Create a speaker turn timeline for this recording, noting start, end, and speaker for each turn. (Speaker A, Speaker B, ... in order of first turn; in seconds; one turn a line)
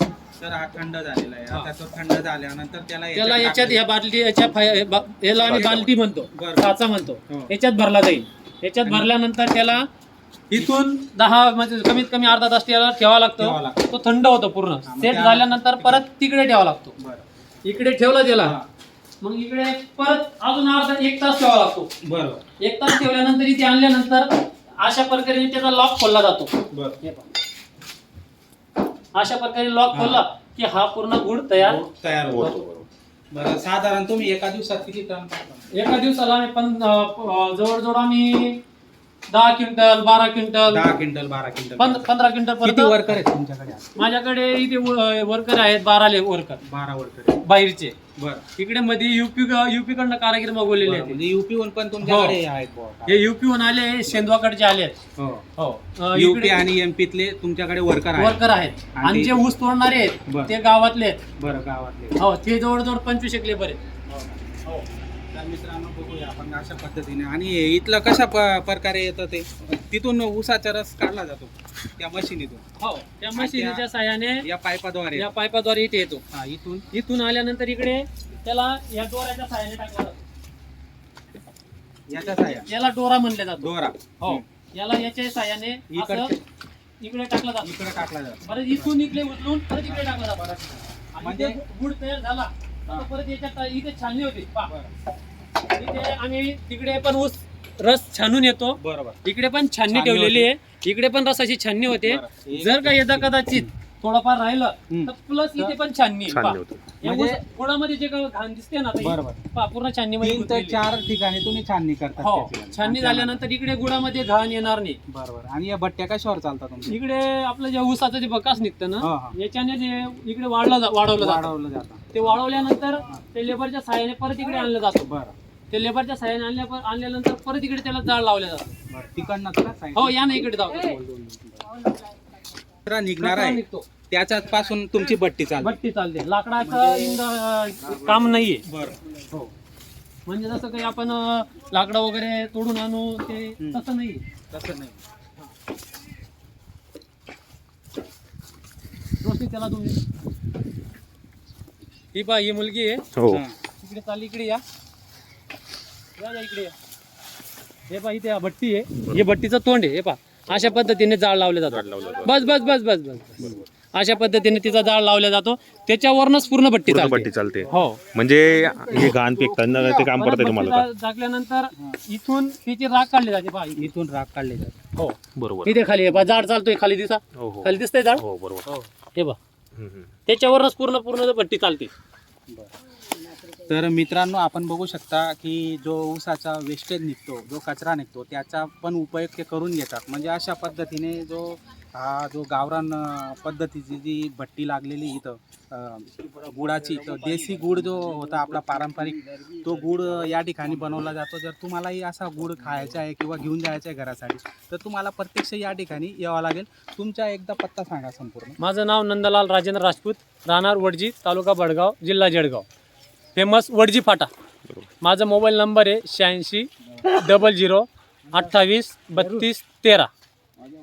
Speaker A: 0.4-3.8
Speaker B: 3.1-9.8
Speaker A: 5.4-5.8
Speaker C: 5.5-5.9
Speaker A: 6.3-6.7
Speaker A: 8.8-9.1
Speaker B: 10.5-16.9
Speaker A: 13.4-13.9
Speaker A: 14.8-16.0
Speaker A: 17.0-17.3
Speaker B: 17.6-18.6
Speaker A: 18.4-18.7
Speaker B: 19.2-21.9
Speaker A: 22.0-22.4
Speaker B: 22.6-27.3
Speaker A: 26.7-27.0
Speaker B: 29.1-31.8
Speaker A: 29.9-30.2
Speaker A: 31.6-32.5
Speaker C: 32.3-32.9
Speaker A: 33.3-35.7
Speaker B: 35.7-38.6
Speaker B: 39.3-40.8
Speaker A: 40.7-42.0
Speaker B: 41.8-43.0
Speaker A: 42.6-43.9
Speaker B: 44.0-46.6
Speaker A: 46.6-47.4
Speaker B: 47.4-48.0
Speaker A: 48.2-48.4
Speaker B: 48.6-51.2
Speaker A: 50.8-53.3
Speaker B: 52.0-52.4
Speaker B: 53.0-55.0
Speaker A: 55.2-55.5
Speaker B: 55.6-56.6
Speaker A: 56.1-58.4
Speaker B: 58.2-61.2
Speaker A: 58.9-59.5
Speaker A: 60.3-60.5
Speaker A: 61.4-62.2
Speaker B: 62.2-63.8
Speaker A: 64.1-64.4
Speaker A: 65.3-72.6
Speaker B: 72.8-74.5
Speaker A: 73.3-73.8
Speaker A: 74.4-75.3
Speaker B: 75.1-76.2
Speaker A: 76.3-76.9
Speaker B: 76.9-80.2
Speaker A: 82.1-82.7
Speaker B: 82.5-86.3
Speaker A: 83.6-84.4
Speaker A: 85.9-86.4
Speaker B: 87.0-87.7
Speaker A: 87.6-89.1
Speaker B: 88.4-90.4
Speaker A: 89.8-91.6
Speaker B: 91.1-94.7
Speaker A: 94.7-94.9
Speaker B: 95.7-110.8
Speaker A: 98.8-99.2
Speaker A: 99.9-100.5
Speaker A: 101.9-103.7
Speaker A: 104.9-105.8
Speaker C: 106.3-106.9
Speaker A: 107.0-107.4
Speaker A: 109.0-109.4
Speaker A: 110.2-113.4
Speaker B: 112.2-115.0
Speaker A: 115.1-117.0
Speaker B: 116.9-121.5
Speaker A: 119.0-119.3
Speaker A: 121.1-122.4
Speaker B: 122.1-125.1
Speaker A: 125.0-125.3
Speaker B: 125.7-128.8
Speaker A: 128.9-130.6
Speaker B: 129.9-131.4
Speaker A: 131.4-131.7
Speaker A: 132.8-135.8
Speaker B: 133.2-133.9
Speaker B: 135.6-138.7
Speaker A: 136.6-137.2
Speaker A: 137.8-139.0
Speaker B: 140.3-144.2
Speaker A: 143.6-143.8
Speaker A: 144.5-145.0
Speaker B: 149.2-150.0
Speaker B: 152.1-153.0
Speaker C: 153.1-153.4
Speaker A: 153.3-153.5
Speaker B: 153.8-154.6
Speaker B: 156.2-156.7
Speaker B: 157.9-168.1
Speaker C: 161.7-162.5
Speaker C: 166.8-170.8
Speaker A: 168.9-170.0
Speaker B: 170.1-173.9
Speaker A: 173.8-174.8
Speaker B: 175.0-178.2
Speaker C: 175.3-175.8
Speaker C: 177.3-178.7
Speaker C: 179.7-180.1
Speaker B: 180.2-181.9
Speaker A: 183.5-208.6
Speaker B: 208.6-212.7
Speaker B: 213.3-214.3
Speaker B: 215.0-220.1